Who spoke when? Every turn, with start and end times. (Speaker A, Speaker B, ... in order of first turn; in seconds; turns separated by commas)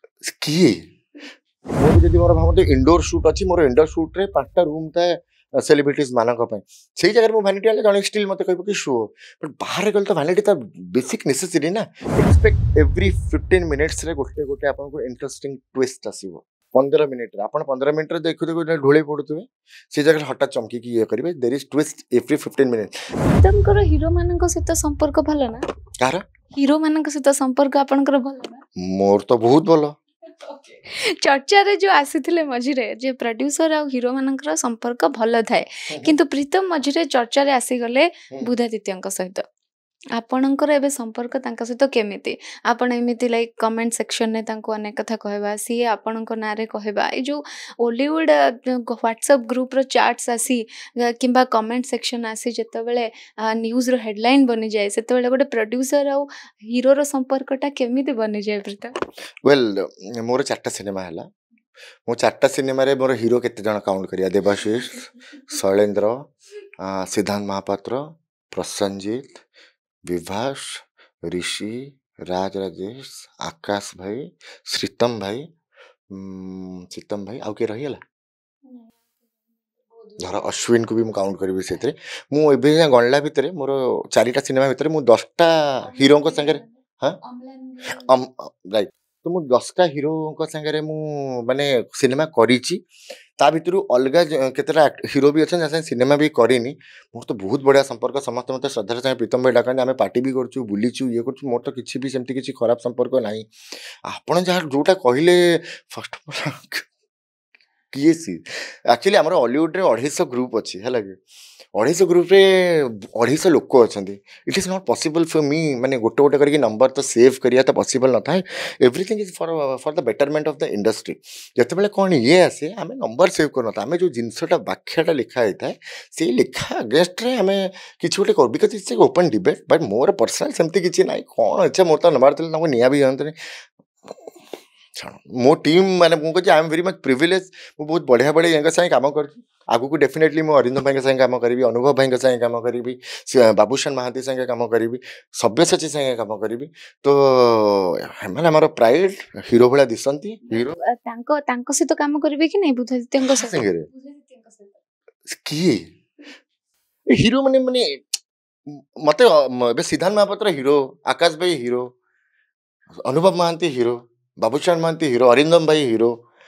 Speaker A: 0.2-0.8, Speaker A: 1.8-22.9, Speaker B: 23.2-25.6, Speaker B: 26.6-28.6, Speaker A: 28.8-29.9, Speaker B: 30.3-39.4, Speaker B: 40.2-58.9, Speaker A: 59.5-61.2, Speaker A: 62.1-66.3, Speaker A: 66.8-69.4, Speaker A: 70.1-75.5, Speaker A: 76.1-78.0, Speaker B: 78.7-81.0, Speaker A: 80.2-87.2, Speaker B: 85.8-88.1, Speaker A: 88.0-92.8, Speaker A: 93.4-103.5, Speaker A: 104.1-106.8, Speaker A: 107.9-111.2, Speaker A: 111.8-133.3, Speaker A: 135.0-150.8, Speaker B: 150.5-154.8, Speaker A: 153.2-153.9, Speaker A: 155.3-155.8, Speaker A: 157.2-158.2, Speaker A: 158.7-161.9, Speaker A: 163.1-166.1